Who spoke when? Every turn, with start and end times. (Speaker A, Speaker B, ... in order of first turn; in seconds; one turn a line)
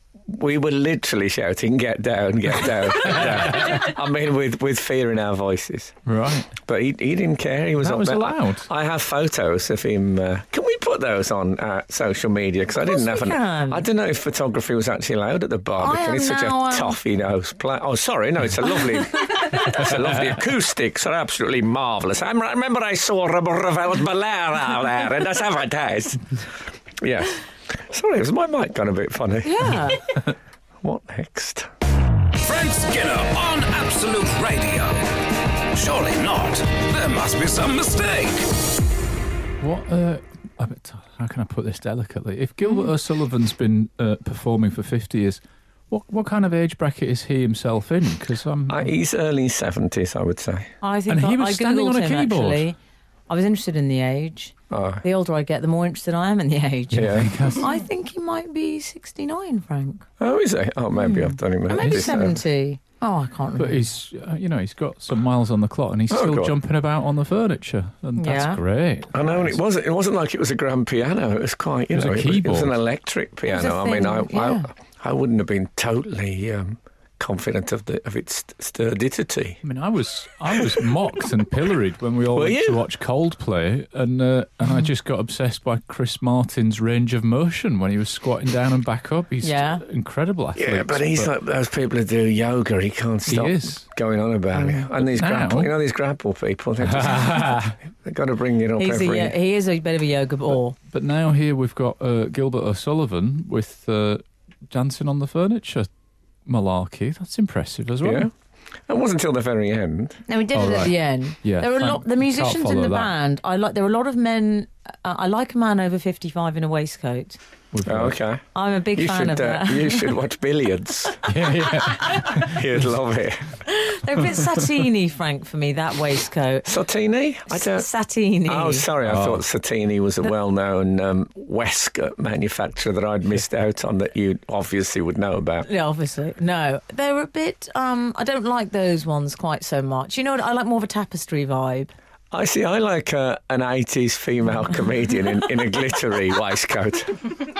Speaker A: 0.2-6.0
Speaker B: 6.0-6.5
Speaker A: 6.5-26.3
Speaker B: 7.8-8.7
Speaker C: 12.8-13.8
Speaker C: 15.8-16.9
Speaker A: 27.0-29.9
Speaker C: 29.4-30.0
Speaker A: 30.8-31.7
Speaker D: 32.3-35.2
Speaker D: 35.7-38.5
Speaker B: 39.6-48.9
Speaker A: 48.7-50.7
Speaker C: 50.8-52.8
Speaker B: 51.1-52.7
Speaker C: 53.3-60.0
Speaker A: 54.7-55.0
Speaker B: 56.9-57.7
Speaker A: 56.9-57.4
Speaker A: 60.2-62.4
Speaker C: 61.0-63.8
Speaker B: 61.8-62.2
Speaker B: 63.6-69.6
Speaker A: 66.1-66.5
Speaker C: 68.2-68.6
Speaker A: 69.1-79.6
Speaker B: 71.9-72.8
Speaker C: 73.5-74.7
Speaker B: 79.6-91.3
Speaker A: 80.5-80.8
Speaker A: 82.3-82.8
Speaker C: 89.4-89.8
Speaker A: 90.5-99.3
Speaker B: 93.2-93.8
Speaker C: 94.5-94.9
Speaker B: 95.0-95.7
Speaker B: 96.8-97.7
Speaker C: 98.8-100.8
Speaker B: 100.9-105.9
Speaker B: 106.5-108.3
Speaker A: 108.0-108.3
Speaker A: 108.9-110.2
Speaker C: 110.3-117.4
Speaker B: 110.5-113.1
Speaker B: 117.7-118.2
Speaker A: 117.8-121.3
Speaker C: 118.5-120.1
Speaker B: 121.3-122.6
Speaker C: 121.8-122.3
Speaker A: 122.2-123.4
Speaker C: 123.7-126.7
Speaker A: 126.7-127.9
Speaker C: 127.5-128.9
Speaker A: 128.4-135.7
Speaker B: 129.0-129.4
Speaker C: 135.6-141.9
Speaker A: 142.3-147.4